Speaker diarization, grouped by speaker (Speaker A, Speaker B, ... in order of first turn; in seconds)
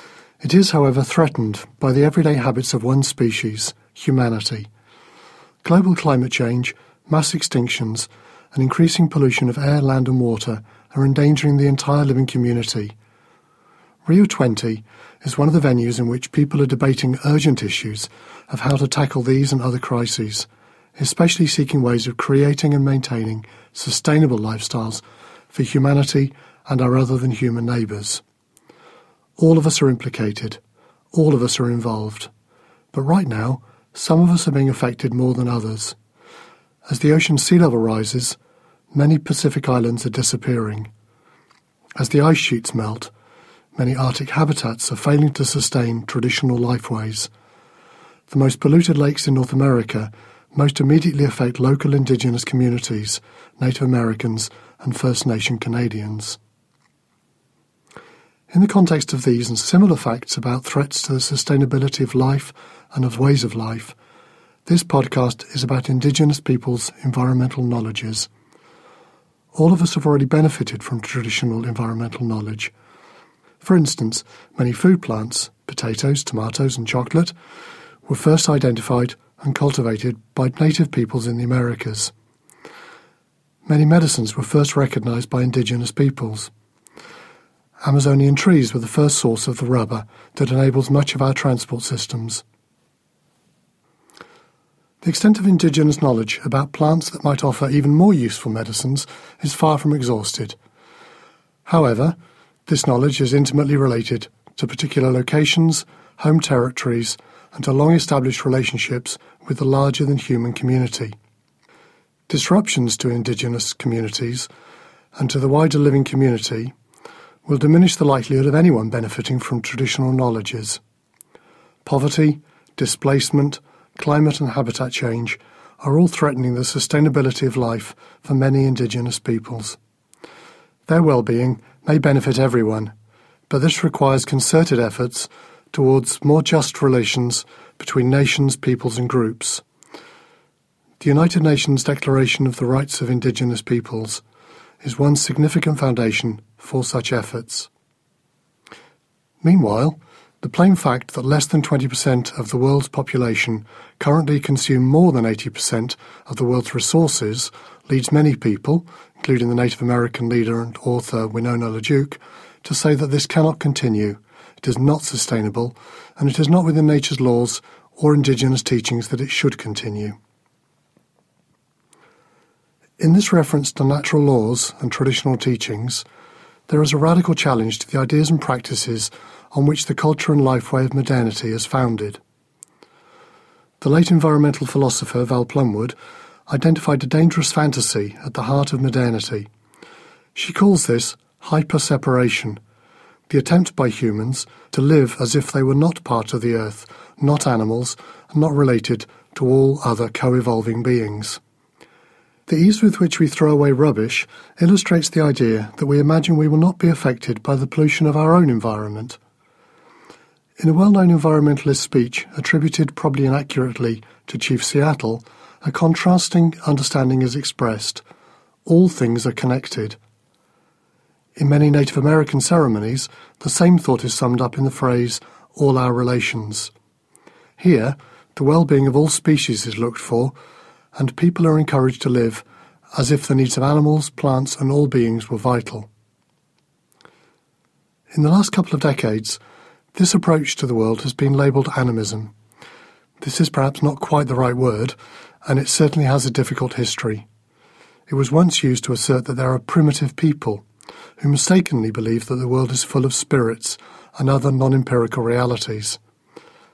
Speaker A: 0.4-4.7, 5.6-12.9, 14.1-28.2, 29.4-30.6, 31.1-32.3, 32.9-36.0, 36.9-38.4, 38.9-40.9, 42.0-43.1, 43.7-47.3, 48.3-56.4, 58.5-64.0, 64.7-68.3, 69.5-72.7, 73.6-77.3, 78.0-82.1, 83.7-86.5, 87.8-92.4, 95.0-100.6, 101.7-111.2, 112.3-114.5, 115.2-116.7, 117.5-120.8, 121.8-129.8, 130.9-132.9, 133.5-139.6, 141.0-144.2, 144.8-147.7, 149.4-170.2, 173.0-176.0, 176.7-182.2, 183.8-185.9, 186.5-189.5, 190.3-192.6, 193.3-201.4, 202.5-209.2, 210.6-218.0, 218.7-220.0, 221.3-226.7, 227.6-230.3, 230.9-232.4, 232.9-235.9, 238.1-239.4, 239.9-242.3, 243.2-247.2, 248.1-250.6, 251.2-256.0